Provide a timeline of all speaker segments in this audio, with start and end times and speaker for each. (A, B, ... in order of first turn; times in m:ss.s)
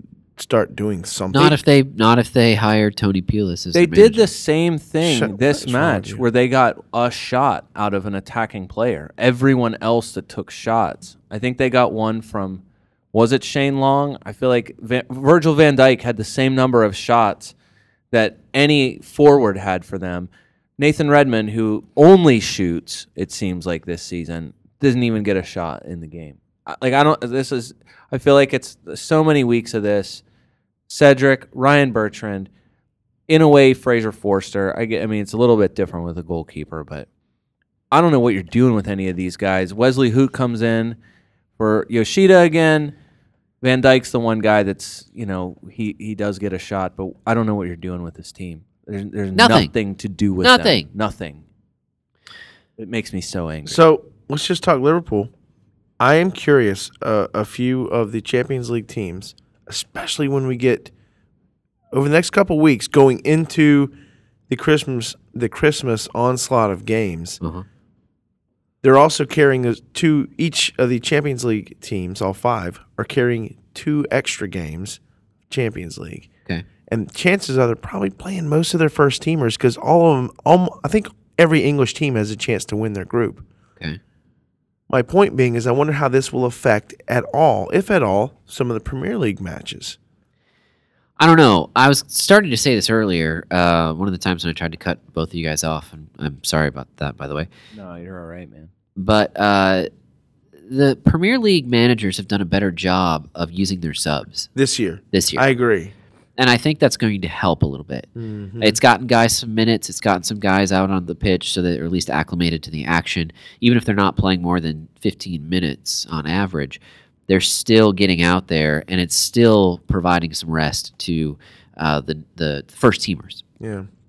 0:00.4-0:01.6 A
0:01.3-0:04.3 B
0:03.7-0:12.6 C
0:05.0-0:06.2 A
0:13.1-0:17.6 C
0:18.1-0:30.2 C
0:30.9-0:32.5 C
0:33.3-0:37.1 C
0:37.9-0:41.0 C
0:41.6-0:42.9 C
0:43.6-0:51.4 C
0:49.4-0:49.7 B
0:50.4-0:50.9 B
0:52.8-0:53.8 C
0:53.7-0:55.3 A
0:56.0-1:00.9 A
1:01.9-1:03.9 A
1:04.5-1:07.4 A
1:08.8-1:16.3 A
1:16.9-1:23.4 A
1:24.9-1:30.0 A
1:31.2-1:37.5 B
1:37.7-1:38.7 C
1:39.0-1:39.9 B
1:40.7-1:44.5 B
1:44.6-1:45.9 A
1:45.1-1:45.5 B
1:46.4-1:48.1 B
1:48.2-1:48.8 A
1:48.6-2:03.4 B
2:03.6-2:03.9 A